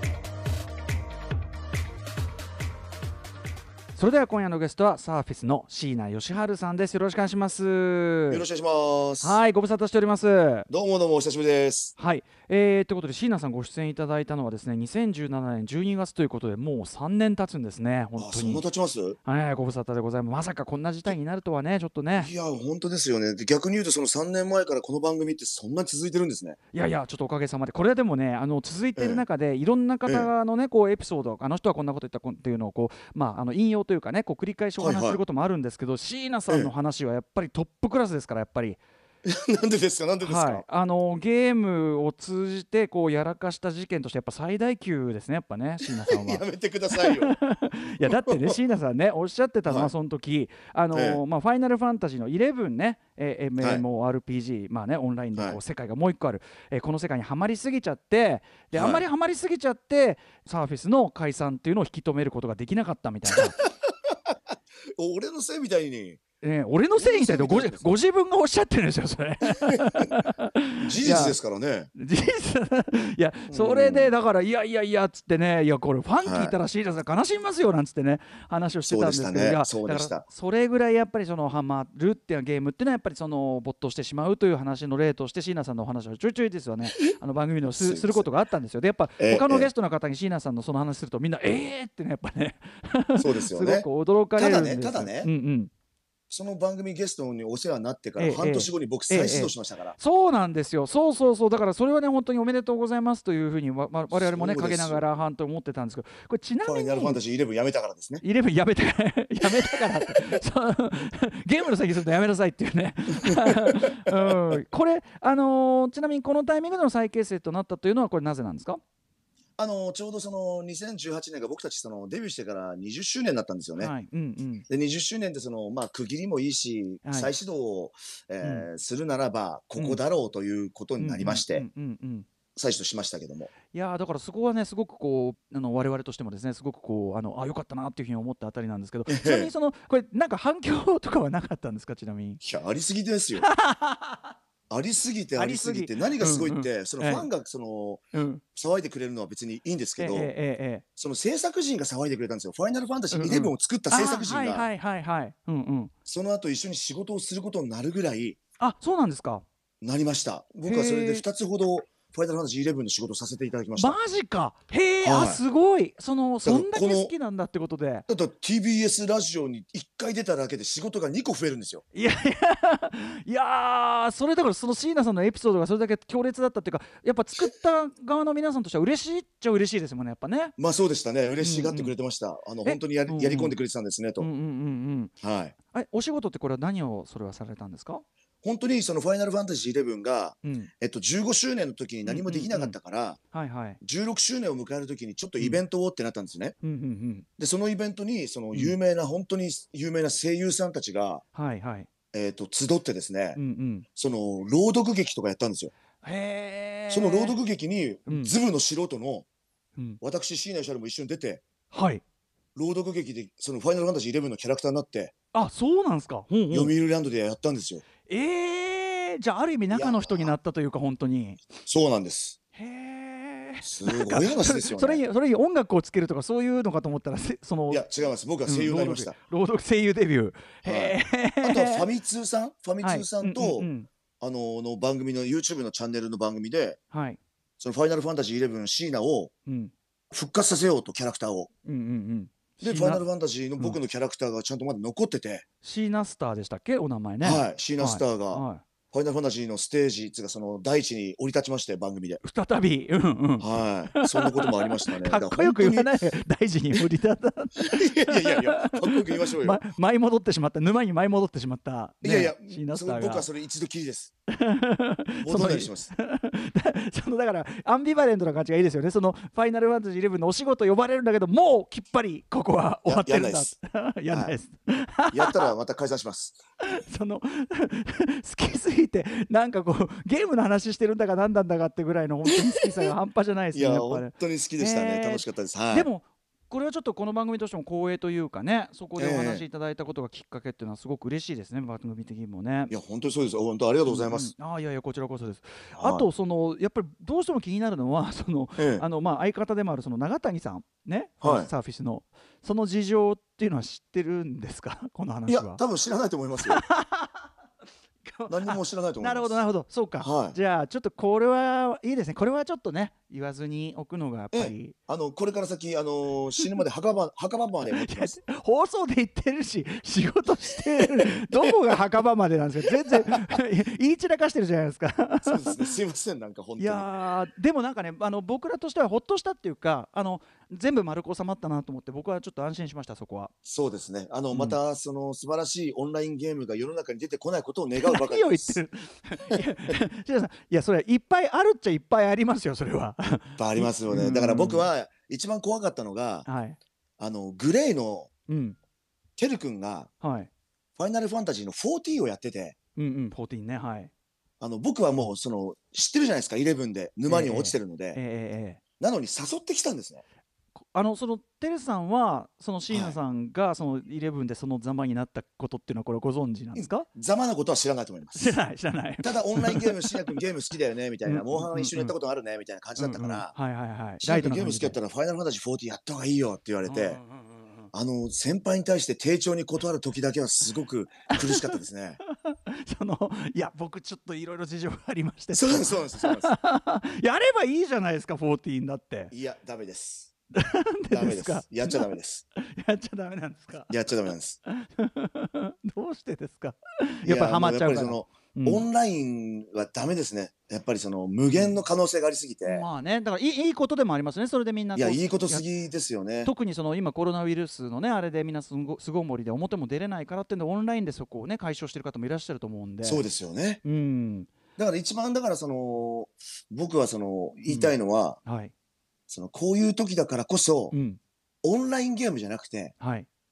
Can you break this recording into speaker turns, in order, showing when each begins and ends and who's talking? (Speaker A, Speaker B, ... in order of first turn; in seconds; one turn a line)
Speaker A: 4.0-8.4
Speaker B: 8.3-9.4
Speaker A: 9.2-10.7
Speaker B: 10.7-11.9
Speaker A: 12.0-18.6
Speaker B: 18.2-19.2
Speaker A: 19.2-22.3
Speaker B: 22.2-26.6
Speaker A: 26.7-38.8
Speaker B: 29.0-29.2
Speaker B: 34.8-35.2
Speaker B: 39.2-40.6
Speaker A: 40.2-63.6
Speaker B: 45.8-47.4
Speaker B: 48.0-48.6
Speaker B: 49.7-49.9
Speaker B: 50.9-51.2
Speaker B: 53.6-53.8
Speaker B: 58.7-59.1
Speaker B: 63.3-64.4
Speaker B: 65.0-66.2
Speaker A: 66.4-71.4
Speaker B: 67.0-67.9
Speaker B: 69.5-70.1
Speaker B: 70.8-71.9
Speaker A: 72.0-95.7
Speaker B: 73.5-74.1
Speaker B: 76.2-76.5
Speaker B: 78.9-80.2
Speaker B: 87.7-88.3
Speaker B: 89.2-89.7
Speaker B: 93.2-95.3
Speaker B: 96.3-100.0
Speaker A: 98.2-107.2
Speaker B: 104.1-105.0
Speaker B: 106.7-108.2
Speaker A: 108.2-118.8
Speaker B: 109.4-110.4
Speaker B: 113.2-114.4
Speaker B: 119.6-123.9
Speaker A: 123.8-124.7
Speaker B: 124.7-131.7
Speaker A: 127.0-127.3
Speaker A: 128.4-128.7
Speaker A: 131.0-132.3
Speaker B: 132.6-133.5
Speaker A: 133.7-142.4
Speaker B: 139.1-139.5
Speaker B: 142.4-143.5
Speaker A: 143.4-144.3
Speaker B: 144.7-148.0
Speaker A: 145.4-147.3
Speaker A: 148.1-148.4
Speaker B: 148.6-150.3
Speaker A: 150.0-150.8
Speaker B: 151.0-154.7
Speaker A: 153.1-155.9
Speaker B: 156.1-158.4
Speaker A: 158.6-159.4
Speaker B: 159.8-164.0
Speaker A: 160.7-161.2
Speaker A: 163.8-168.1
Speaker B: 165.0-165.4
Speaker B: 166.4-167.1
Speaker B: 168.1-171.8
Speaker A: 171.9-180.6
Speaker B: 180.6-184.3
Speaker A: 181.4-181.9
Speaker A: 182.6-183.6
Speaker A: 184.2-185.1
Speaker B: 185.2-185.6
Speaker A: 185.7-188.0
Speaker B: 188.4-193.2
Speaker A: 190.4-190.7
Speaker A: 192.1-192.8
Speaker A: 193.3-193.8
Speaker B: 193.8-196.6
Speaker A: 196.6-197.3
Speaker B: 197.4-201.2
Speaker A: 201.3-201.9
Speaker B: 202.1-203.4
Speaker A: 203.3-203.9
Speaker B: 204.0-205.7
Speaker A: 206.0-207.4
Speaker B: 206.9-209.3
Speaker A: 208.1-208.3
Speaker B: 210.0-211.4
Speaker A: 211.7-212.0
Speaker B: 212.6-215.1
Speaker A: 215.3-216.7
Speaker B: 216.5-217.8
Speaker A: 218.1-221.4
Speaker B: 219.7-220.3
Speaker B: 221.6-222.4
Speaker A: 222.6-227.8
Speaker B: 223.6-225.0
Speaker B: 227.7-229.2
Speaker A: 228.5-231.9
Speaker B: 230.6-236.8
Speaker A: 232.8-233.9
Speaker A: 236.9-237.2
Speaker B: 237.6-239.3
Speaker A: 239.5-239.7
Speaker B: 240.1-241.5
Speaker A: 241.7-243.0
Speaker B: 242.6-245.4
Speaker A: 245.6-248.6
Speaker B: 247.2-252.2
Speaker A: 252.2-263.3
Speaker B: 253.4-255.9
Speaker B: 257.6-259.6
Speaker B: 262.0-264.1
Speaker A: 264.3-275.5
Speaker B: 265.2-265.9
Speaker B: 272.9-273.6
Speaker B: 275.1-276.4
Speaker A: 276.6-292.7
Speaker B: 283.5-285.9
Speaker B: 289.0-289.4
Speaker B: 292.7-294.3
Speaker A: 293.9-305.6
Speaker B: 295.8-296.1
Speaker B: 298.6-298.9
Speaker B: 301.2-301.5
Speaker B: 305.3-306.6
Speaker A: 306.4-307.3
Speaker A: 308.1-314.8
Speaker B: 308.3-309.4
Speaker B: 310.0-310.4
Speaker B: 314.3-318.2
Speaker A: 317.7-325.6
Speaker B: 320.8-321.5
Speaker B: 322.9-323.2
Speaker B: 325.2-326.9
Speaker A: 326.6-333.3
Speaker B: 333.5-338.6
Speaker A: 334.3-334.6
Speaker A: 337.8-344.7
Speaker B: 343.4-346.3
Speaker A: 346.3-346.6
Speaker B: 347.0-348.1
Speaker A: 348.3-348.6
Speaker B: 349.2-349.9
Speaker A: 350.0-350.3
Speaker B: 350.8-352.6
Speaker A: 352.8-353.9
Speaker B: 354.4-358.0
Speaker A: 357.1-358.6
Speaker B: 358.8-360.0
Speaker A: 360.6-366.9
Speaker B: 362.7-363.0
Speaker B: 366.6-368.4
Speaker A: 368.1-370.1
Speaker B: 369.0-373.3
Speaker A: 371.1-371.9
Speaker A: 372.8-374.8
Speaker B: 374.0-377.0
Speaker A: 376.7-377.7
Speaker B: 377.7-382.0
Speaker A: 381.1-381.6
Speaker A: 382.1-389.1
Speaker B: 385.3-386.4
Speaker B: 389.1-390.1
Speaker A: 390.3-393.7
Speaker B: 390.9-392.2
Speaker B: 393.7-394.4
Speaker A: 394.5-398.7
Speaker B: 397.1-402.7
Speaker A: 402.4-405.4
Speaker B: 404.8-406.3
Speaker A: 406.2-413.0
Speaker B: 412.8-413.6
Speaker A: 413.6-414.3
Speaker B: 414.6-418.2
Speaker A: 417.5-417.7
Speaker A: 418.2-418.5
Speaker B: 419.1-420.7
Speaker A: 420.7-421.0
Speaker B: 421.4-422.7
Speaker A: 422.8-423.1